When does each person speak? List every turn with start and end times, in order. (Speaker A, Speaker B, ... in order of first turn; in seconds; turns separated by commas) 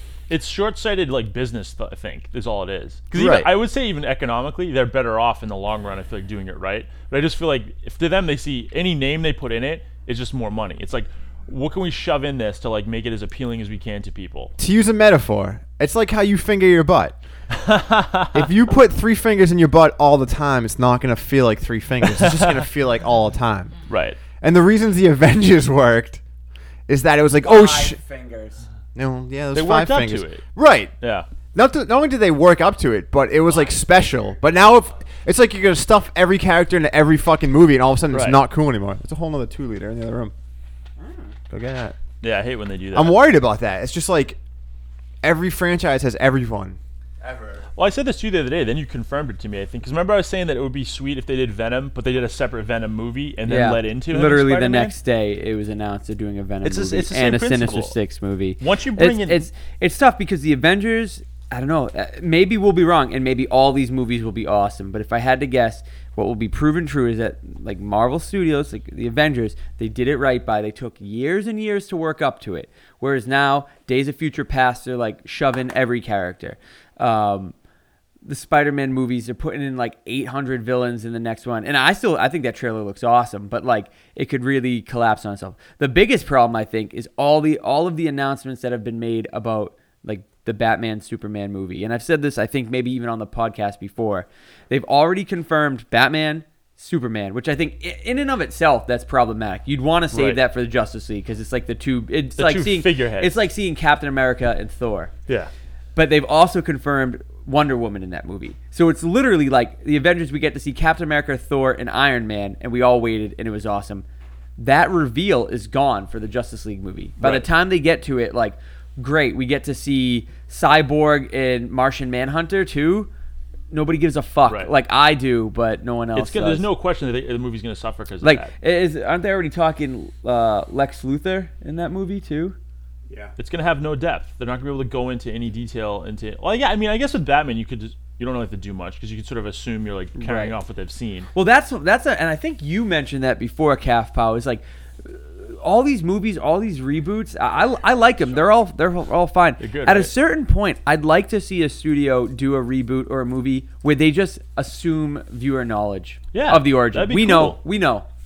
Speaker A: 0.3-14.5, Speaker B: 3.1-3.5, Speaker B: 14.6-17.2, Speaker A: 17.5-18.5, Speaker B: 18.3-23.7, Speaker A: 22.1-22.7, Speaker A: 23.9-24.2, Speaker B: 24.4-26.2, Speaker B: 26.9-28.0, Speaker C: 27.4-28.6, Speaker B: 28.9-30.9, Speaker A: 29.5-30.4, Speaker A: 31.0-31.3, Speaker B: 31.5-40.3, Speaker A: 38.1-38.4, Speaker C: 41.0-41.3, Speaker B: 41.5-42.0, Speaker A: 42.2-43.2, Speaker B: 42.9-44.4, Speaker B: 45.2-47.6, Speaker A: 47.8-54.9, Speaker C: 53.4-77.5, Speaker A: 56.6-57.9, Speaker A: 58.6-59.5, Speaker C: 78.2-105.1, Speaker A: 100.1-100.4, Speaker A: 102.4-103.5, Speaker C: 105.9-114.0, Speaker C: 114.6-123.1, Speaker A: 117.2-117.5, Speaker C: 123.7-126.7, Speaker A: 126.1-128.5, Speaker C: 128.2-132.6, Speaker A: 133.4-141.3, Speaker C: 140.2-140.6, Speaker C: 141.3-158.1, Speaker A: 149.6-150.1, Speaker A: 156.3-157.6